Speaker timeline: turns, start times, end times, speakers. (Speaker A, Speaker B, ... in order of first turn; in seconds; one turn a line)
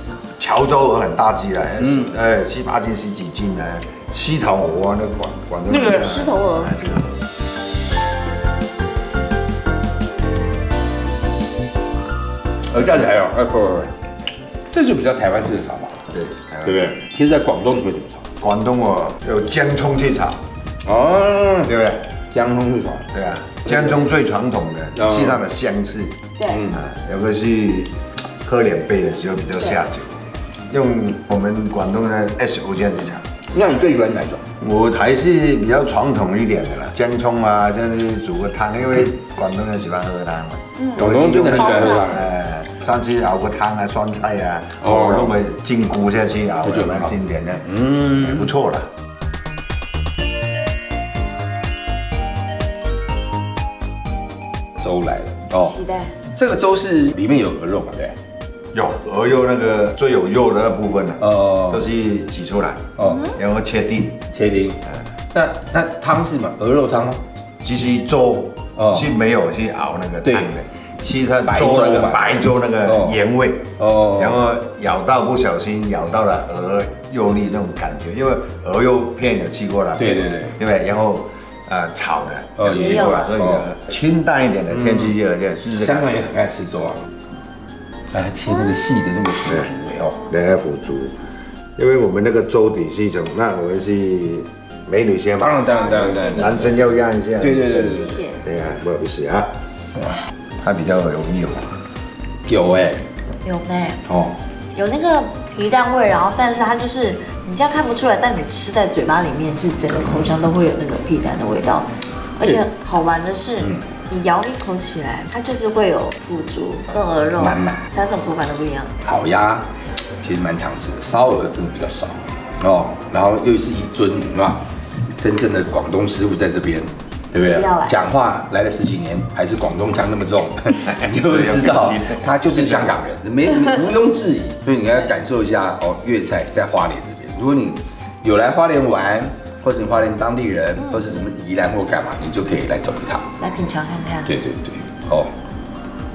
Speaker A: 0.4-7.2
Speaker B: 5.7-6.1
Speaker C: 5.9-6.7
Speaker B: 12.7-13.9
Speaker B: 14.7-16.0
Speaker A: 16.1-16.9
Speaker B: 16.6-18.3
Speaker A: 18.4-20.4
Speaker B: 20.9-21.7
Speaker A: 21.7-22.0
Speaker B: 22.3-23.1
Speaker A: 23.1-30.2
Speaker B: 23.7-23.9
Speaker B: 24.9-25.4
Speaker A: 30.7-33.4
Speaker B: 33.5-34.5
Speaker A: 34.6-48.9
Speaker C: 40.8-42.0
Speaker B: 41.0-42.3
Speaker B: 46.6-47.1
Speaker B: 47.8-48.2
Speaker B: 54.8-55.8
Speaker C: 55.6-56.2
Speaker B: 56.3-58.2
Speaker A: 58.7-64.2
Speaker B: 61.2-61.8
Speaker B: 63.0-63.3
Speaker B: 64.3-64.8
Speaker B: 65.3-67.2
Speaker A: 67.6-86.1
Speaker B: 68.8-69.0
Speaker B: 71.5-72.3
Speaker B: 72.9-73.1
Speaker B: 73.8-74.4
Speaker B: 80.0-80.5
Speaker B: 82.6-83.6
Speaker C: 82.7-83.3
Speaker B: 85.6-87.1
Speaker B: 88.1-90.2
Speaker A: 90.3-91.1
Speaker A: 91.8-99.5
Speaker B: 95.4-96.7
Speaker C: 95.6-96.7
Speaker B: 97.4-98.2
Speaker C: 97.8-98.4
Speaker A: 100.6-101.7
Speaker B: 102.5-103.0
Speaker C: 103.4-104.0
Speaker B: 104.1-104.3
Speaker C: 104.7-119.0
Speaker B: 117.4-117.8
Speaker B: 119.0-119.7
Speaker B: 120.2-124.6
Speaker B: 125.2-143.3
Speaker C: 127.4-128.0
Speaker A: 130.9-133.0
Speaker C: 143.4-144.3
Speaker B: 144.2-145.3